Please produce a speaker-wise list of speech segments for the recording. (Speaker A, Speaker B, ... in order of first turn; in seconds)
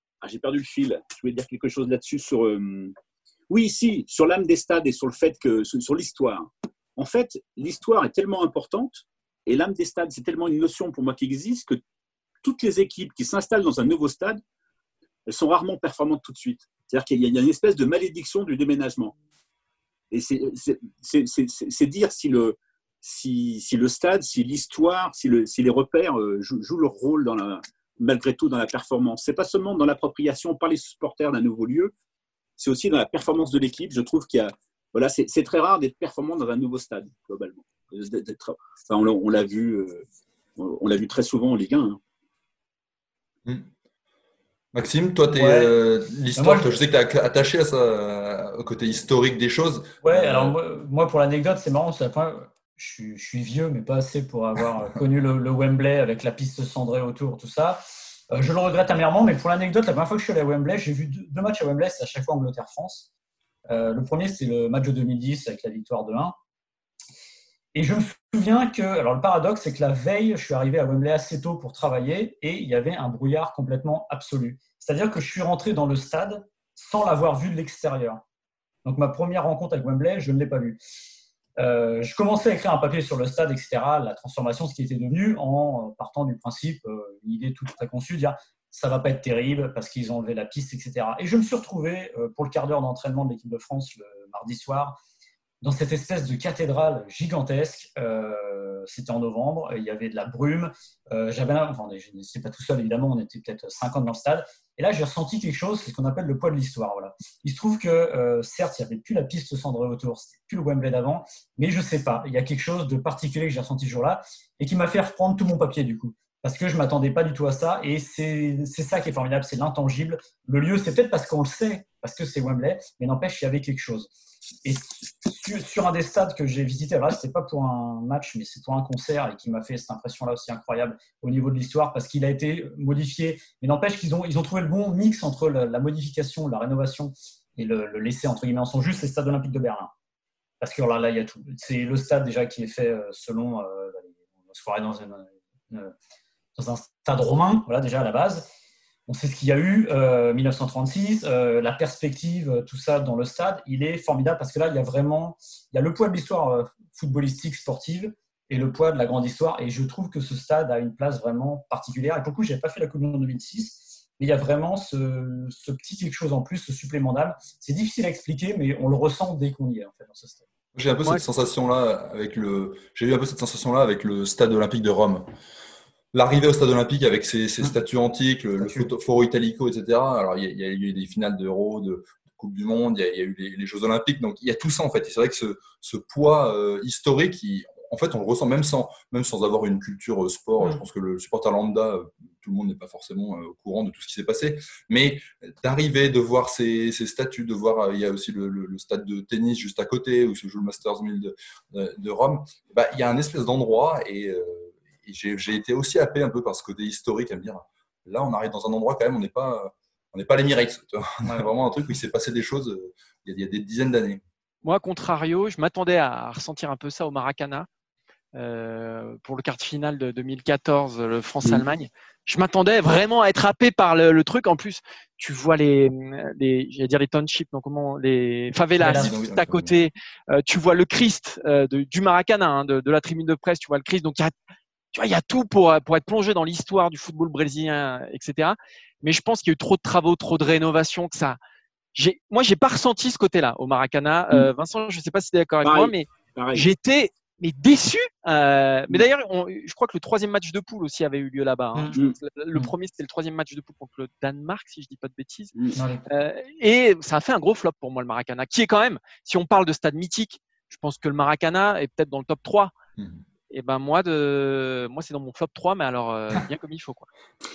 Speaker A: 0.2-3.0, 3.5-11.8, 12.4-14.4, 15.3-19.1, 20.1-31.9, 32.6-40.0, 40.6-42.0, 245.6-246.7
Speaker B: 44.7-50.6, 170.8-175.3, 176.1-214.2, 228.8-229.7, 263.0-263.2
Speaker C: 45.3-45.8, 46.3-46.8, 50.0-63.1, 63.7-66.3, 67.8-78.2, 78.8-80.8, 81.6-95.0, 95.6-124.1, 124.7-139.9, 140.6-145.9, 146.6-148.5, 149.1-170.4, 178.6-178.9, 211.2-211.5, 228.8-229.1, 255.8-256.1
Speaker D: 214.6-217.7, 218.3-234.3, 234.9-241.4, 241.9-255.6, 256.1-262.7, 263.5-267.1